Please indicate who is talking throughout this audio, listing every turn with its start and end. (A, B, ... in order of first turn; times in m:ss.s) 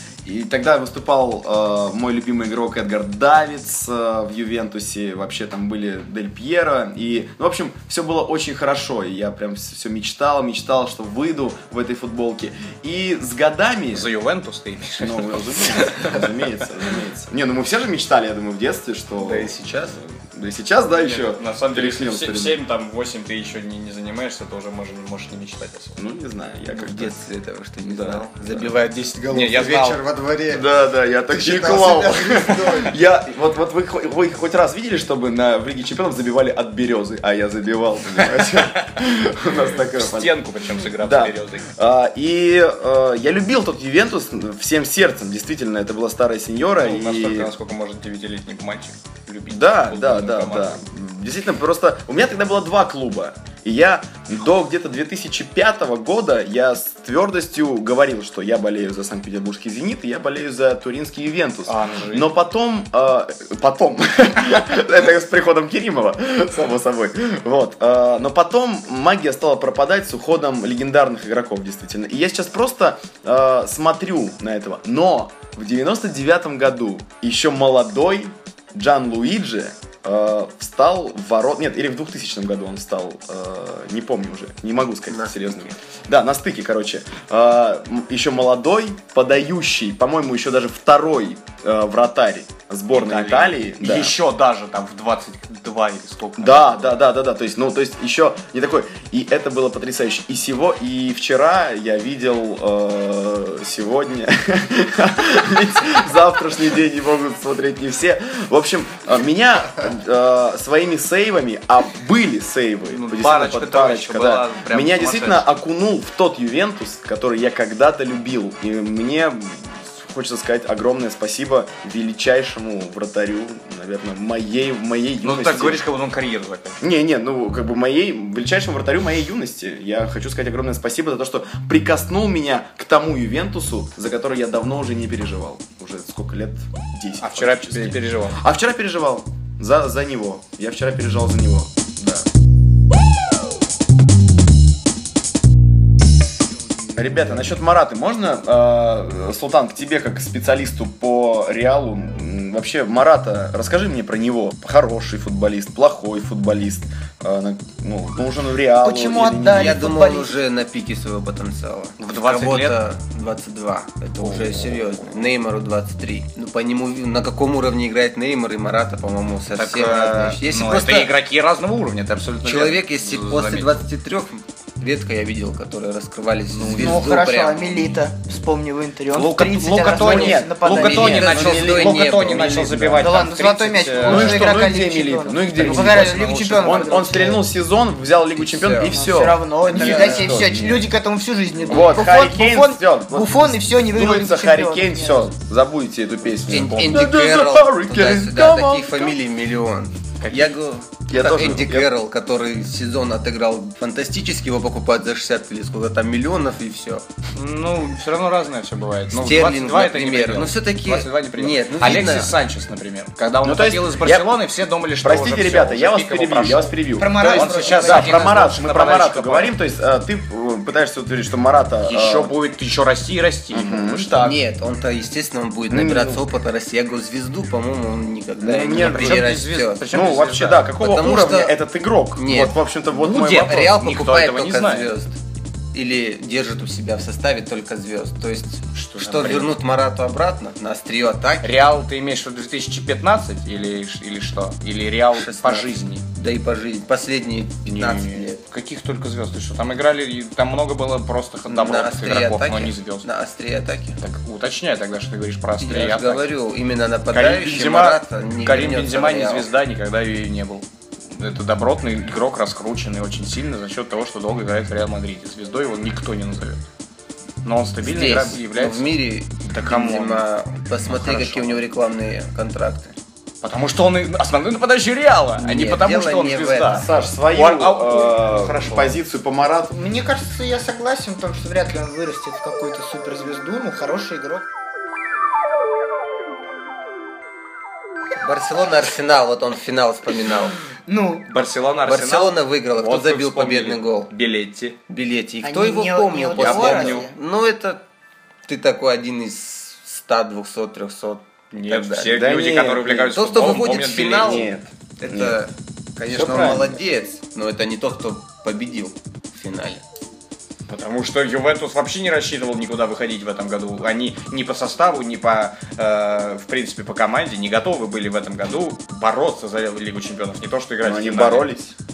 0:00.2-0:14.1 A
0:13.9-0:16.2 B
0:15.0-0:22.6 A
0:19.2-0:20.0 C
0:20.9-0:26.0 B
0:26.0-0:27.1 A
0:26.7-0:30.7 C
0:27.9-0:28.3 A
0:28.6-0:30.0 B
0:30.5-0:40.4 A
0:31.3-0:33.0 C
0:38.2-0:38.9 B
0:39.7-0:41.7 B
0:40.9-0:47.5 A
0:46.8-0:50.8 B
0:49.5-1:34.2 A
1:01.7-1:02.3 B
1:25.1-1:25.8 C
1:32.9-1:37.0 B
1:36.4-2:05.8 A
1:52.9-1:55.5 B
2:05.2-2:06.8 B
2:06.8-2:22.3 A
2:17.2-2:18.4 B
2:27.0-2:39.9 A
2:38.8-2:40.3 D
2:39.5-2:51.1 C
2:42.0-2:42.8 B
2:44.2-2:44.9 B
2:49.5-2:53.8 B
2:52.4-2:57.8 C
2:56.5-2:57.3 B
2:56.8-3:01.5 D
2:59.1-3:04.6 B
2:59.7-3:03.2 A
3:00.7-3:02.7 C
3:03.0-3:07.4 D
3:04.0-3:10.9 A
3:05.6-3:06.8 B
3:08.4-3:09.0 C
3:08.8-3:15.3 D
3:09.8-3:10.3 C
3:11.6-3:19.1 A
3:16.5-3:17.0 B
3:16.5-3:27.1 C
3:20.2-3:20.5 B
3:21.1-3:21.9 A
3:27.3-3:39.5 B
3:29.1-3:32.4 C
3:33.4-3:34.3 A
3:35.0-3:42.3 A
3:37.0-3:38.4 D
3:41.8-3:44.1 B
3:43.5-3:44.4 A
3:44.2-3:49.9 C
3:45.7-3:46.2 A
3:48.4-3:49.4 A
3:48.6-3:50.7 B
3:49.9-3:53.7 A
3:50.8-3:51.6 C
3:52.2-3:52.6 C
3:52.9-3:54.9 B
3:53.2-3:55.2 C
3:55.7-4:01.5 C
3:58.8-3:59.6 B
4:01.4-4:06.0 B
4:05.1-4:08.4 C
4:07.7-4:13.1 B
4:11.5-4:14.0 C
4:14.0-4:16.3 B
4:15.6-4:19.5 C
4:17.1-4:26.6 B
4:27.4-4:28.9 B
4:27.8-4:33.0 C
4:29.4-4:30.2 B
4:30.8-4:31.6 B
4:33.4-4:39.0 B
4:35.4-4:36.8 C
4:36.7-4:39.8 A
4:39.7-4:44.5 D
4:48.2-4:50.6 C
4:50.9-4:51.3 D
4:51.3-4:54.8 B
4:51.9-4:54.1 C
4:54.9-4:57.8 C
4:55.4-4:57.2 D
4:56.4-4:57.1 B
4:58.5-5:02.2 C
5:01.5-5:04.5 B
5:02.0-5:05.4 A
5:03.1-5:09.8 C
5:06.1-5:06.8 A
5:10.7-5:21.5 B
5:20.8-5:21.7 A